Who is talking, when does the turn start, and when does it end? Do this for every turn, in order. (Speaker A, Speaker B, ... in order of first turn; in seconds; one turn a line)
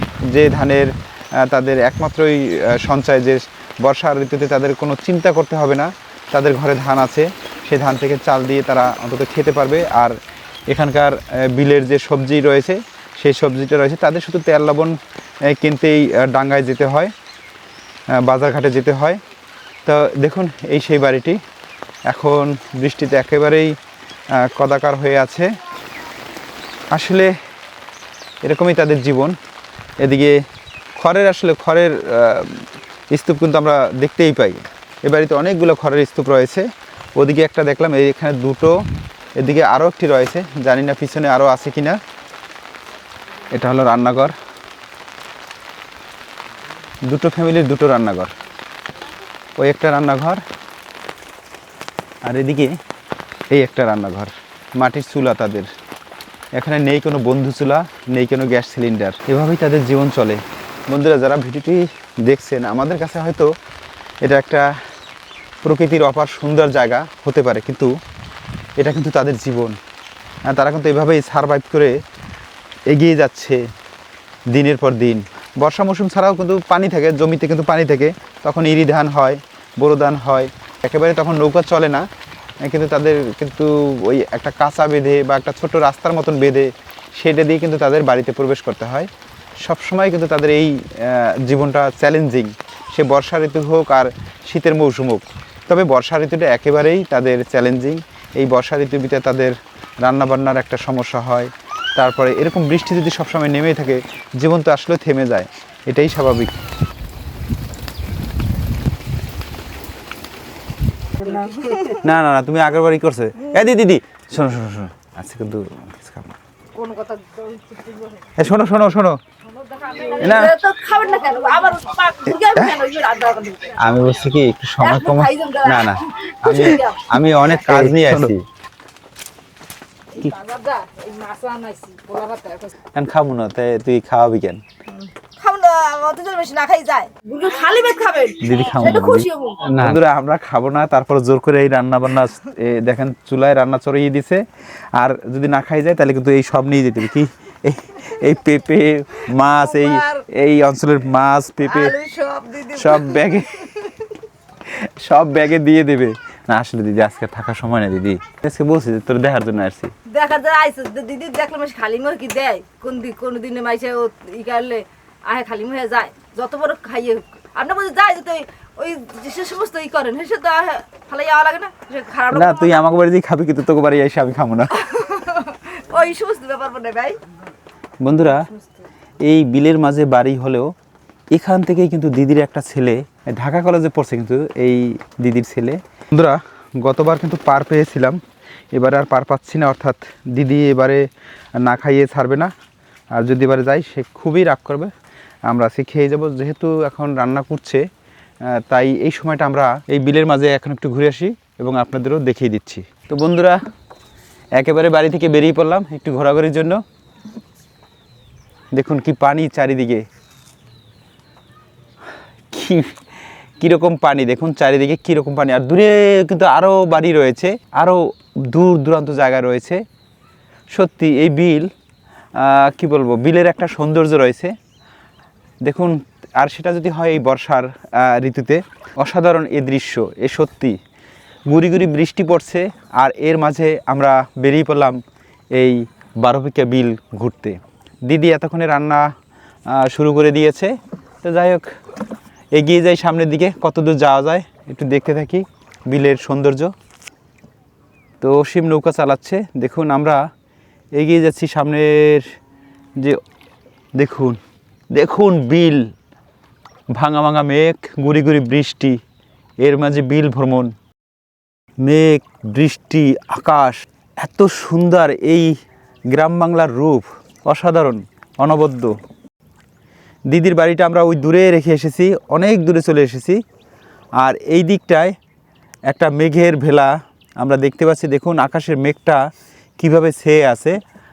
Speaker A: 0.3-17.1
Speaker A: 18.2-19.2
Speaker A: 19.9-21.4
Speaker A: 22.1-23.8
Speaker A: 24.4-25.5
Speaker A: 26.9-27.3
Speaker A: 28.4-29.4
Speaker A: 30.0-30.4
Speaker A: 31.0-36.7
Speaker A: 37.2-38.8
Speaker A: 39.4-42.0
Speaker A: 43.5-44.3
Speaker A: 47.1-48.3
Speaker A: 49.6-50.4
Speaker A: 52.2-52.7
Speaker A: 53.5-55.7
Speaker A: 56.5-63.5
Speaker A: 64.2-64.7
Speaker A: 65.6-67.9
Speaker A: 68.8-69.8
Speaker A: 70.5-72.0
Speaker A: 72.9-73.6
Speaker A: 74.5-82.1
Speaker A: 82.7-89.1
Speaker A: 89.6-106.5
Speaker B: 111.2-112.0
Speaker A: 112.0-116.4
Speaker B: 116.8-118.3
Speaker A: 118.4-119.2
Speaker B: 119.5-123.8
Speaker A: 120.2-120.5
Speaker A: 122.4-122.8
Speaker A: 123.8-128.4
Speaker B: 124.8-127.8
Speaker B: 130.1-132.7
Speaker A: 132.9-134.6
Speaker B: 134.9-139.9
Speaker A: 138.4-144.4
Speaker A: 144.9-151.9
Speaker B: 149.6-150.2
Speaker B: 151.6-153.9
Speaker A: 152.8-153.8
Speaker A: 154.7-159.9
Speaker B: 160.1-172.8
Speaker A: 172.3-174.8
Speaker B: 174.8-177.2
Speaker A: 178.0-178.5
Speaker A: 179.2-180.7
Speaker A: 181.3-188.2
Speaker A: 188.7-191.1
Speaker A: 191.6-192.5
Speaker A: 193.2-194.9
Speaker A: 195.5-197.8
Speaker A: 198.5-203.6
Speaker A: 204.6-206.8
Speaker A: 208.7-210.1
Speaker A: 212.5-212.9
Speaker A: 213.6-219.8
Speaker A: 220.7-221.7
Speaker A: 222.4-224.6
Speaker A: 225.6-230.8
Speaker A: 231.5-235.0
Speaker A: 235.5-239.1
Speaker A: 239.7-241.7
Speaker A: 242.6-246.7
Speaker A: 248.2-250.2
Speaker A: 250.9-252.3
Speaker A: 254.0-254.4
Speaker A: 254.9-255.9
Speaker A: 256.9-259.0
Speaker A: 259.6-260.7
Speaker A: 261.8-265.6
Speaker A: 266.1-268.9
Speaker A: 270.3-273.4
Speaker A: 274.2-275.2
Speaker A: 275.9-279.2
Speaker A: 279.8-280.8